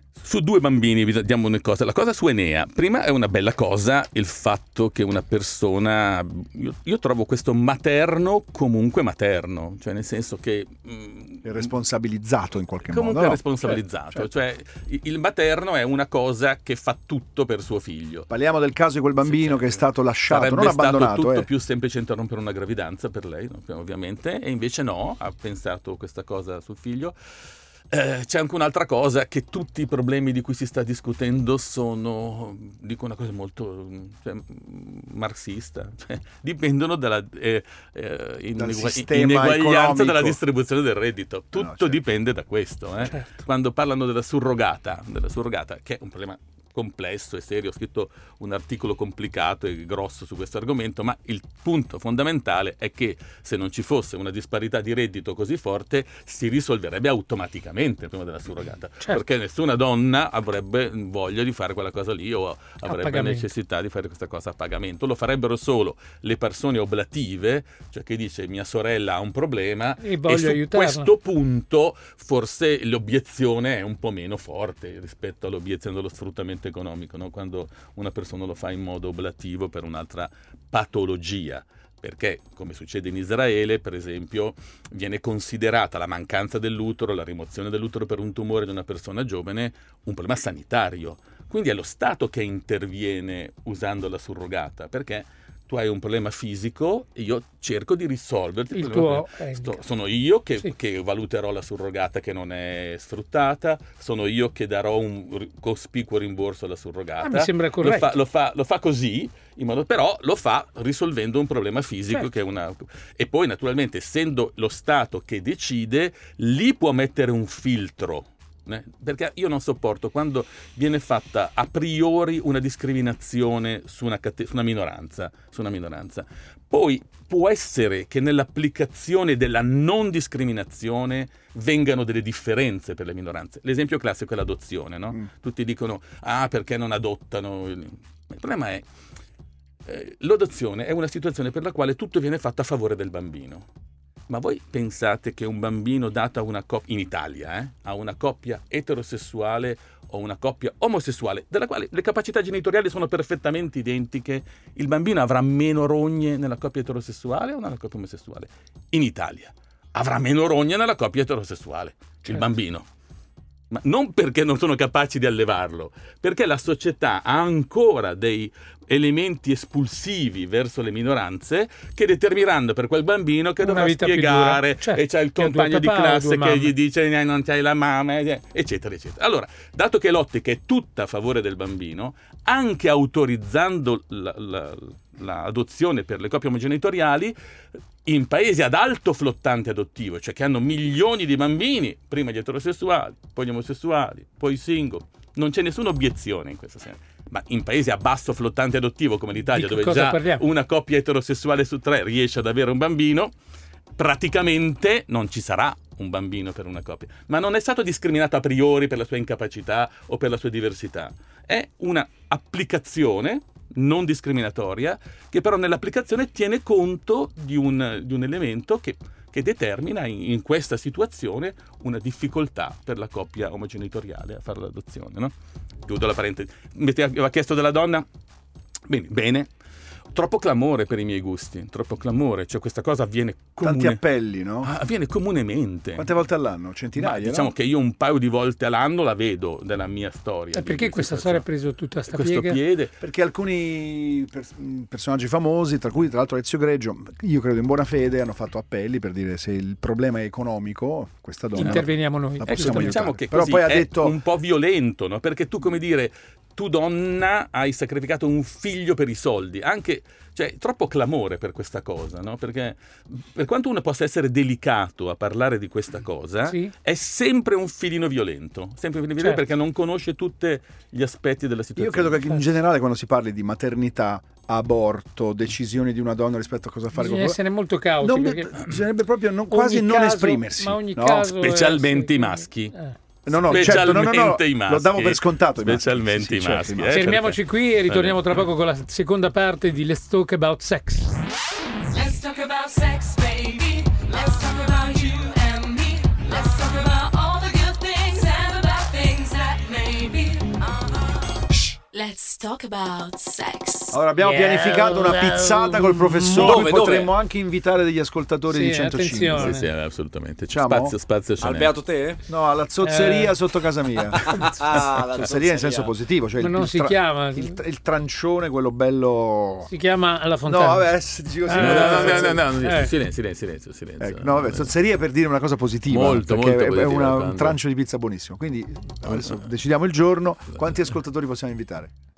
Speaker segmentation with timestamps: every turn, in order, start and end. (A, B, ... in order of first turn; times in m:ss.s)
0:00.2-0:11.7 A
0:11.4-0:13.4 B
0:12.8-0:18.3 A
0:18.3-0:21.5 B
0:19.2-0:27.2 A
0:27.9-2:18.8 A
0:38.6-0:40.4 B
0:41.6-0:42.0 B
1:02.8-1:03.5 C
1:10.0-1:11.1 C
1:38.7-1:39.8 C
1:47.2-1:48.2 C
2:19.9-2:23.7 A
2:24.3-2:42.9 A
2:43.7-3:07.4 A
2:53.6-2:56.7 C
3:08.0-3:23.3 A
3:19.5-3:20.4 C
3:24.0-3:48.1 A
3:48.9-3:49.5 A
3:50.1-3:54.0 A
3:53.6-3:54.7 B
3:54.6-3:56.1 A
3:56.0-3:57.5 B
3:57.0-4:01.4 A
4:00.5-4:02.6 C
4:02.1-4:02.9 A
4:03.0-4:14.2 B
4:11.6-4:13.0 C
4:11.6-4:11.8 A
4:12.4-4:32.4 A
4:26.5-4:26.7 C
4:31.8-4:37.4 B
4:36.9-4:38.5 C
4:38.0-4:41.4 B
4:39.5-4:43.0 C
4:41.4-4:42.7 A
4:43.3-4:47.1 B
4:43.3-4:48.4 A
4:43.5-4:43.7 C
4:46.9-4:51.2 C
4:51.9-5:04.0 D
5:03.9-5:09.6 B
5:04.2-5:06.7 C
5:06.3-5:07.1 E
5:08.5-5:09.7 C
5:09.4-5:11.7 A
5:10.5-5:11.0 B
5:11.4-5:12.2 E
5:12.3-5:19.7 B
5:12.8-5:13.4 C
5:14.1-5:15.9 E
5:16.4-5:17.6 C
5:19.7-5:20.9 C
5:20.5-5:22.5 B
5:21.4-5:22.9 C
5:21.5-5:24.7 A
5:24.0-5:31.9 B
5:25.9-5:27.6 A
5:29.1-5:29.4 A